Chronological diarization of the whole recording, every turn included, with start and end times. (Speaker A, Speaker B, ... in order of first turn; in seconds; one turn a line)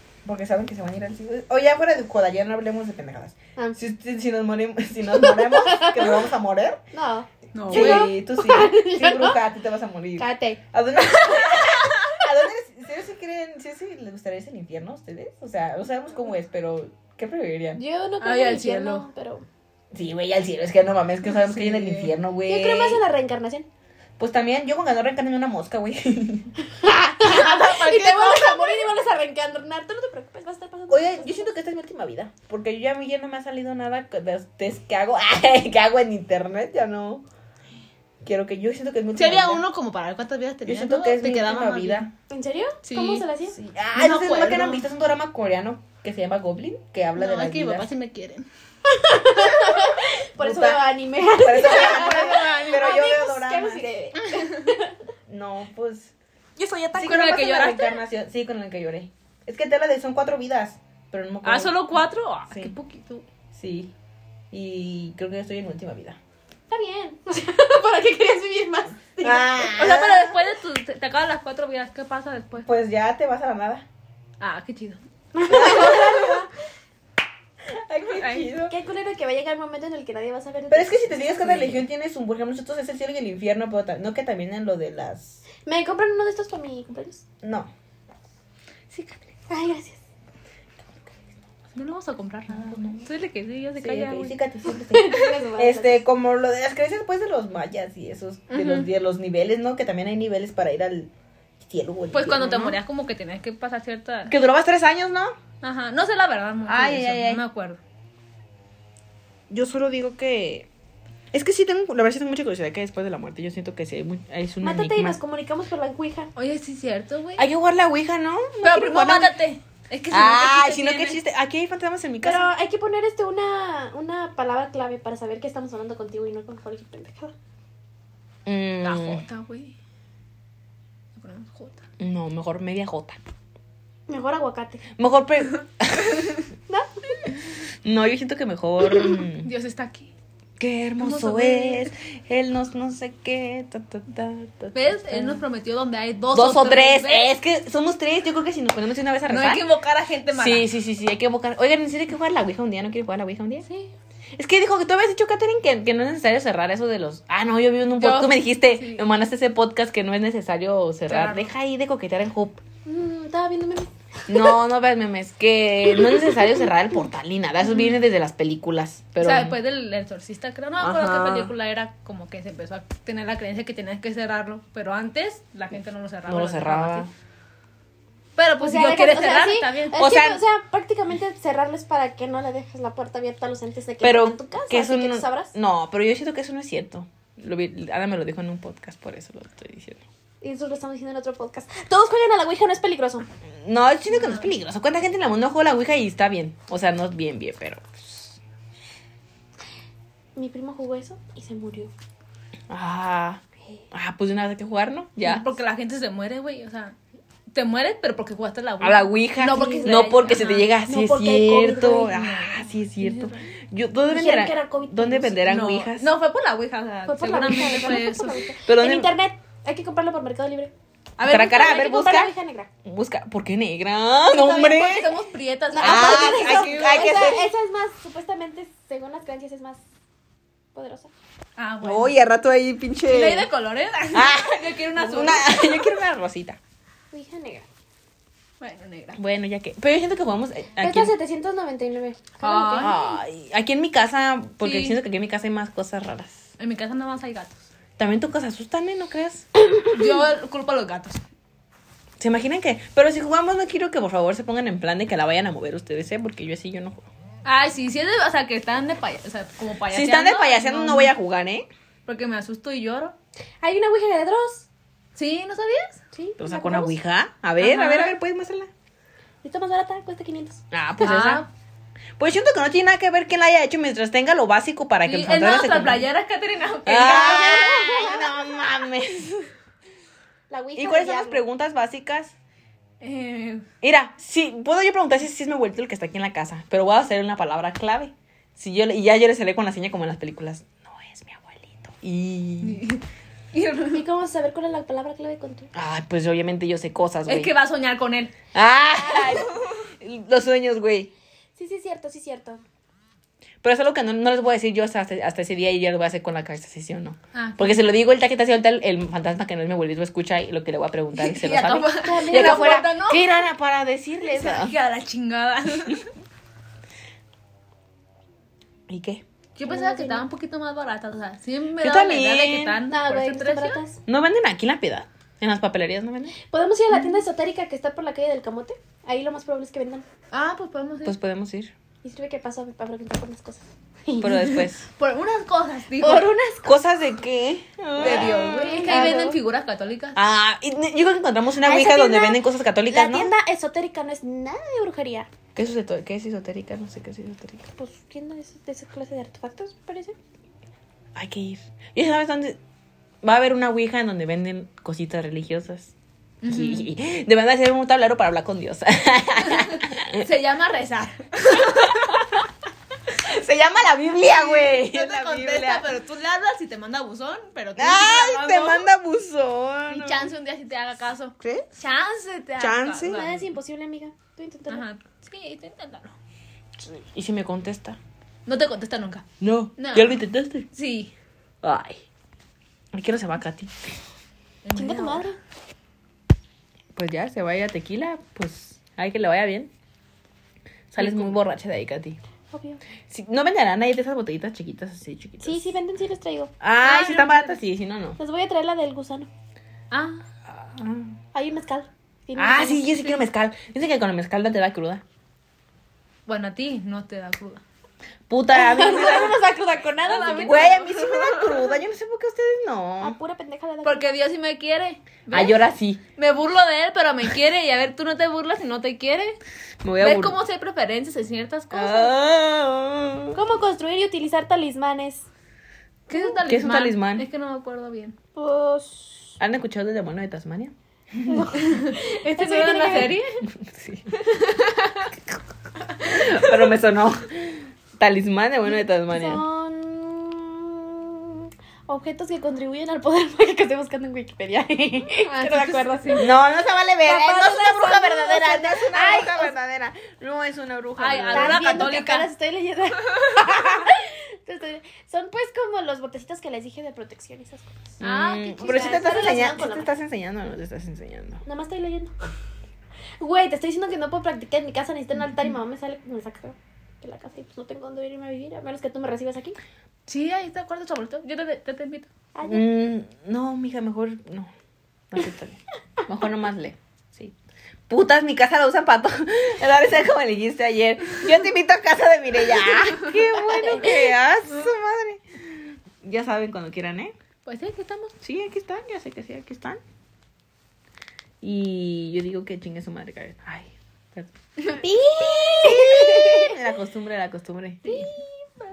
Speaker A: 0.2-6.8
Speaker B: 5.1-6.2
Speaker B: 6.9-9.4
Speaker C: 7.5-8.1
Speaker A: 7.7-17.8
Speaker B: 10.2-10.6
Speaker B: 17.8-19.4
Speaker C: 18.2-19.1
Speaker A: 19.9-23.0
Speaker C: 21.4-22.1
Speaker B: 22.4-23.7
Speaker A: 24.2-26.5
Speaker B: 26.7-31.5
Speaker A: 27.2-28.6
Speaker A: 30.9-37.2
Speaker A: 38.2-39.6
Speaker C: 39.1-42.1
Speaker A: 40.6-42.1
Speaker B: 42.3-43.6
Speaker C: 42.8-43.3
Speaker A: 43.5-47.9
Speaker C: 43.9-44.9
Speaker C: 47.1-48.5
Speaker B: 48.9-55.0
Speaker A: 50.4-53.9
Speaker C: 51.7-52.9
Speaker C: 54.3-54.6
Speaker A: 55.3-56.1
Speaker C: 56.9-58.0
Speaker A: 56.9-61.9
Speaker C: 61.4-63.2
Speaker A: 62.5-62.7
Speaker A: 63.5-63.9
Speaker A: 64.5-66.2
Speaker B: 66.7-69.9
Speaker A: 69.2-70.4
Speaker C: 69.6-72.7
Speaker A: 72.6-73.8
Speaker C: 74.4-75.0
Speaker B: 75.3-76.5
Speaker A: 75.5-76.5
Speaker A: 77.7-78.7
Speaker C: 78.0-78.5
Speaker B: 78.7-81.2
Speaker A: 80.7-85.4
Speaker C: 81.4-81.8
Speaker B: 85.6-87.2
Speaker A: 87.4-87.7
Speaker C: 88.9-89.2
Speaker B: 89.5-90.0
Speaker C: 91.7-94.4
Speaker A: 92.5-93.0
Speaker A: 93.8-102.8
Speaker B: 94.8-96.0
Speaker C: 98.5-98.9
Speaker C: 102.1-104.3
Speaker A: 104.3-105.4
Speaker C: 105.6-107.8
Speaker A: 106.7-107.4
Speaker A: 109.5-110.7
Speaker A: 111.3-115.2
Speaker B: 114.6-116.3
Speaker C: 116.3-117.5
Speaker A: 117.4-119.3
Speaker C: 118.6-121.2
Speaker A: 120.1-122.5
Speaker B: 122.2-127.3
Speaker A: 128.4-129.2
Speaker C: 128.8-129.7
Speaker C: 131.2-131.8
Speaker A: 132.0-133.2
Speaker B: 134.1-134.8
Speaker A: 135.0-136.3
Speaker B: 136.7-137.2
Speaker A: 137.8-139.5
Speaker C: 139.4-140.1
Speaker A: 140.6-145.4
Speaker C: 141.0-141.9
Speaker C: 144.7-147.3
Speaker A: 146.3-149.7
Speaker C: 149.3-150.7
Speaker A: 150.3-153.7
Speaker C: 153.7-153.9
Speaker A: 154.3-162.6
Speaker C: 158.0-159.1
Speaker C: 161.1-161.5
Speaker B: 162.8-164.6
Speaker A: 164.3-169.6
Speaker B: 165.9-166.5
Speaker C: 169.2-177.1
Speaker A: 170.8-171.5
Speaker A: 176.3-177.1
Speaker C: 178.4-180.1
Speaker B: 178.6-185.5
Speaker A: 179.9-180.4
Speaker A: 184.0-190.0
Speaker B: 190.4-193.3
Speaker A: 193.6-198.4
Speaker C: 194.1-194.5
Speaker B: 200.3-201.9
Speaker A: 202.7-205.5
Speaker C: 205.2-207.0
Speaker C: 207.5-210.7
Speaker A: 208.8-216.1
Speaker B: 209.4-210.1
Speaker B: 210.8-212.2
Speaker C: 212.1-213.4
Speaker B: 214.1-215.4
Speaker C: 215.4-218.4
Speaker B: 217.1-220.7
Speaker A: 218.7-219.1
Speaker C: 221.2-221.8
Speaker A: 221.2-222.3
Speaker B: 221.4-222.7
Speaker A: 222.8-225.1
Speaker C: 224.3-227.2
Speaker B: 224.4-225.0
Speaker B: 225.7-229.8
Speaker A: 225.8-227.5
Speaker B: 230.7-231.1
Speaker C: 231.6-232.2
Speaker A: 231.8-233.5
Speaker C: 233.1-235.9
Speaker A: 234.1-236.6
Speaker B: 237.1-237.7
Speaker C: 238.6-239.2
Speaker A: 239.2-241.1
Speaker B: 240.8-243.1
Speaker C: 242.4-243.0
Speaker A: 242.8-246.5
Speaker C: 244.6-245.0
Speaker C: 246.6-247.7
Speaker A: 248.0-249.5
Speaker C: 249.9-251.2
Speaker A: 252.2-257.1
Speaker C: 257.4-261.1
Speaker A: 259.9-261.7
Speaker C: 262.1-263.1
Speaker B: 263.6-264.7
Speaker C: 265.1-266.0
Speaker B: 266.1-266.9
Speaker A: 266.4-268.7
Speaker C: 267.6-268.2
Speaker B: 269.4-270.6
Speaker A: 270.7-271.4
Speaker C: 271.0-271.5
Speaker A: 272.2-276.1
Speaker C: 275.0-277.9
Speaker A: 276.9-279.5
Speaker B: 277.0-278.6
Speaker B: 280.5-281.4
Speaker A: 280.8-282.3
Speaker C: 283.0-283.6
Speaker A: 283.8-292.8
Speaker C: 292.6-294.0
Speaker B: 293.9-295.7
Speaker A: 295.7-297.5
Speaker C: 297.2-298.3
Speaker A: 298.5-301.1
Speaker B: 299.1-299.4
Speaker B: 301.6-302.6
Speaker A: 303.6-314.7
Speaker C: 307.3-307.8
Speaker C: 311.1-313.2
Speaker B: 311.9-312.9
Speaker C: 314.2-316.1
Speaker A: 318.9-319.2
Speaker C: 319.6-323.8
Speaker B: 319.6-320.3
Speaker A: 321.8-322.8
Speaker B: 322.9-324.0
Speaker A: 324.1-326.4
Speaker B: 326.5-330.0
Speaker C: 330.3-331.1
Speaker A: 331.0-331.7
Speaker B: 332.0-334.6
Speaker A: 334.2-334.8
Speaker C: 334.4-336.3
Speaker B: 336.0-336.8
Speaker A: 336.6-339.2
Speaker C: 338.0-340.2
Speaker B: 338.0-339.4
Speaker A: 340.1-343.3
Speaker B: 341.6-345.3
Speaker A: 345.5-347.7
Speaker B: 347.8-350.1
Speaker A: 351.1-352.6
Speaker A: 353.2-355.9
Speaker C: 356.4-356.9
Speaker A: 356.4-360.2
Speaker C: 359.4-362.2
Speaker A: 361.6-362.4
Speaker A: 363.1-365.9
Speaker C: 364.1-368.9
Speaker A: 367.8-370.3
Speaker C: 369.9-373.4
Speaker A: 371.4-371.7
Speaker A: 372.6-373.2
Speaker B: 373.0-374.8
Speaker C: 374.7-376.1
Speaker A: 376.8-378.0
Speaker C: 378.4-379.2
Speaker A: 379.4-380.7
Speaker C: 379.8-380.2
Speaker C: 380.7-381.1
Speaker A: 381.6-382.0
Speaker A: 382.9-384.0
Speaker C: 384.6-385.3
Speaker B: 384.7-385.4
Speaker A: 386.9-389.7
Speaker A: 390.9-392.2
Speaker C: 391.0-391.3
Speaker B: 392.5-392.8
Speaker A: 393.1-395.6
Speaker B: 395.4-396.6
Speaker A: 396.6-398.2
Speaker C: 396.8-397.5
Speaker B: 398.2-399.3
Speaker C: 399.9-400.2
Speaker A: 400.5-401.1
Speaker B: 401.3-402.9
Speaker A: 402.4-405.0
Speaker C: 406.3-407.6
Speaker A: 408.3-409.4
Speaker B: 408.5-410.8
Speaker C: 410.0-411.7
Speaker A: 410.3-413.2
Speaker B: 413.0-414.2
Speaker C: 413.8-415.6
Speaker A: 415.3-416.0
Speaker C: 416.1-419.4
Speaker A: 419.8-420.4
Speaker C: 420.0-422.1
Speaker A: 421.7-423.4
Speaker B: 423.3-425.3
Speaker C: 426.1-428.1
Speaker A: 426.4-427.2
Speaker B: 428.4-429.3
Speaker A: 429.4-430.7
Speaker C: 431.2-433.4
Speaker B: 431.3-433.2
Speaker A: 433.5-434.1
Speaker C: 434.2-435.1
Speaker A: 436.0-439.4
Speaker B: 439.1-446.4
Speaker C: 445.2-446.3
Speaker A: 446.2-451.9
Speaker B: 447.0-449.5
Speaker C: 451.0-452.3
Speaker B: 451.3-457.9
Speaker A: 458.0-461.4
Speaker C: 458.0-459.0
Speaker B: 458.5-459.9
Speaker B: 461.4-462.1
Speaker B: 463.2-469.6
Speaker C: 470.1-472.1
Speaker B: 472.3-472.6
Speaker A: 472.4-474.5
Speaker A: 475.1-477.3
Speaker A: 477.9-487.1
Speaker B: 483.4-484.1
Speaker C: 487.4-488.1
Speaker A: 488.2-489.8
Speaker A: 491.4-494.3
Speaker B: 494.7-496.6
Speaker A: 495.2-497.9
Speaker C: 497.8-498.1
Speaker B: 497.8-498.2